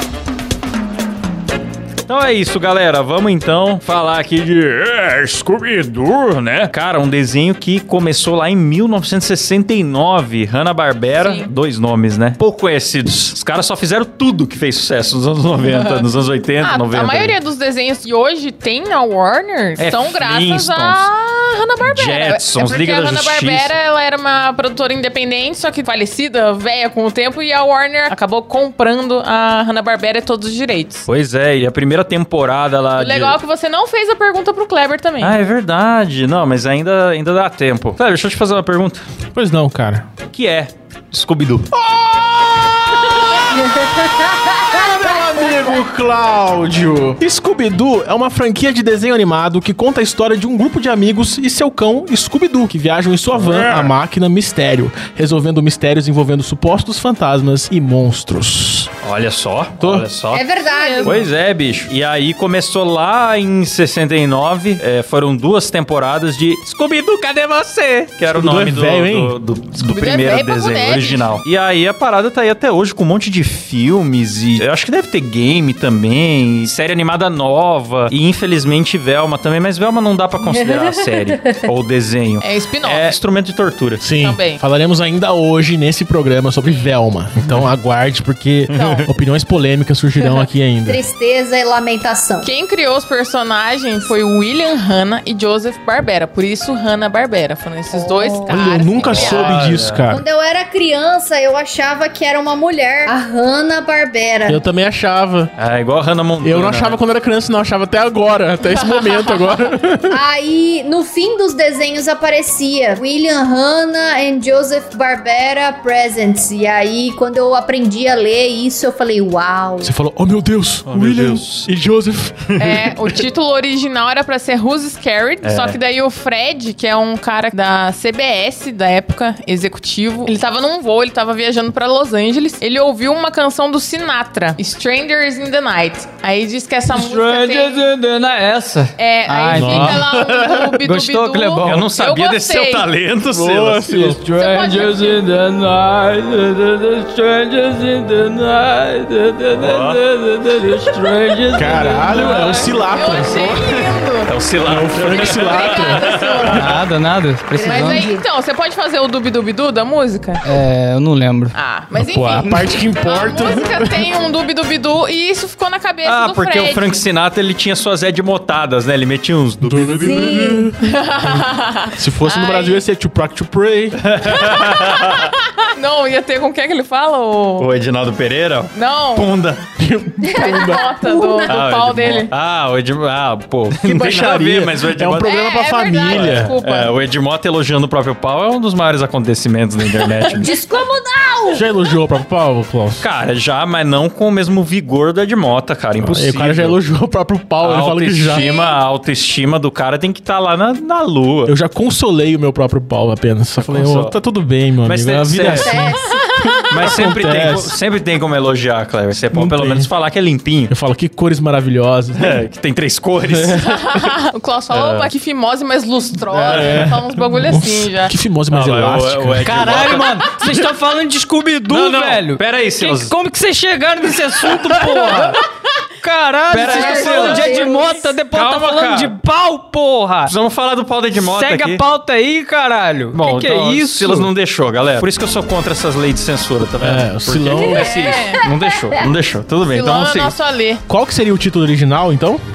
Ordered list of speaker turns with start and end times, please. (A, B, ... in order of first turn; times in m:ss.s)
0:02.1-0:17.3 A
0:11.1-0:11.5 B
0:15.6-0:16.0 B
0:16.6-0:31.1 B
0:19.8-0:21.1 A
0:21.8-0:23.7 A
0:31.1-0:33.4 A
0:33.0-0:35.4 B
0:35.2-0:39.0 A
0:39.3-0:40.0 C
0:40.3-0:41.7 A
0:41.7-0:43.8 C
0:43.8-0:44.8 D
0:44.5-0:58.9 C
0:53.3-0:53.9 A
0:59.0-1:00.4 A
0:59.8-1:00.1 C
1:00.3-1:01.2 D
1:00.6-1:01.3 B
1:01.0-1:24.0 A
1:08.3-1:09.4 C
1:09.8-1:11.3 B
1:20.4-1:21.6 D
1:22.4-1:23.2 B
1:24.0-1:31.0 C
1:24.2-1:24.6 B
1:26.6-1:26.9 B
1:28.7-1:29.0 A
1:28.7-1:29.1 B
1:30.8-1:32.5 D
1:32.4-1:39.6 B
1:37.9-1:39.0 D
1:38.5-1:40.2 C
1:39.1-1:40.0 A
1:40.1-1:44.6 D
1:44.4-1:45.5 C
1:45.6-1:47.0 A
1:46.4-1:50.2 C
1:48.6-1:49.6 B
1:50.1-1:59.9 D
1:59.8-2:02.8 C
2:00.8-2:01.7 A
2:02.6-2:17.9 B
2:05.4-2:05.8 A
2:16.9-2:20.2 E
2:19.0-2:22.9 B
2:19.5-2:20.1 C
2:20.7-2:21.9 E
2:21.6-2:24.0 A
2:23.3-2:24.2 C
2:23.8-2:32.5 E
2:24.3-2:25.2 B
2:29.6-2:30.0 A
2:31.5-2:33.9 C
2:31.6-2:34.3 B
2:34.2-2:36.7 A
2:34.6-2:36.8 C
2:35.1-2:36.7 B
2:35.8-2:36.7 D
2:36.5-2:38.1 E
2:37.5-2:38.2 D
2:37.6-2:40.4 B
2:40.4-2:41.5 E
2:41.5-2:47.0 B
2:41.9-2:44.0 C
2:46.0-2:50.6 A
2:49.6-2:54.0 C
2:50.0-2:50.7 D
2:50.8-2:52.8 B
2:54.0-2:55.3 A
2:54.2-2:57.7 B
2:57.6-2:59.6 A
2:58.7-2:59.3 B
2:59.8-3:00.8 C
3:00.2-3:01.6 D
3:00.3-3:02.3 B
3:01.4-3:05.3 A
3:03.8-3:06.5 C
3:05.2-3:06.9 B
3:06.0-3:10.5 A
3:10.0-3:10.5 B
3:10.3-3:11.6 D
3:11.5-3:13.0 C
3:13.0-3:16.8 A
3:16.0-3:18.4 C
3:17.6-3:21.5 A
3:18.4-3:18.6 D
3:18.4-3:18.7 B
3:21.4-3:27.8 C
3:23.6-3:24.2 A
3:24.8-3:25.7 A
3:25.4-3:26.2 D
3:26.0-3:26.6 B
3:26.7-3:30.7 A
3:29.3-3:29.9 C
3:30.7-3:32.4 C
3:32.1-3:33.7 A
3:33.2-3:33.8 C
3:33.6-3:38.1 B
3:34.7-3:35.1 A
3:36.3-3:40.0 C
3:36.5-3:36.9 A
3:38.5-3:40.6 A
3:39.4-3:45.4 E
3:41.7-3:43.1 A
3:46.0-3:50.3 E
3:46.5-3:47.7 A
3:46.5-3:48.1 D
3:48.3-3:49.1 A
3:50.3-3:51.8 A
3:51.2-3:54.3 E
3:53.1-4:00.3 A
3:56.8-3:57.9 C
3:57.6-3:58.4 B
3:57.6-3:59.1 D
3:59.6-4:00.8 B
4:00.9-4:02.4 C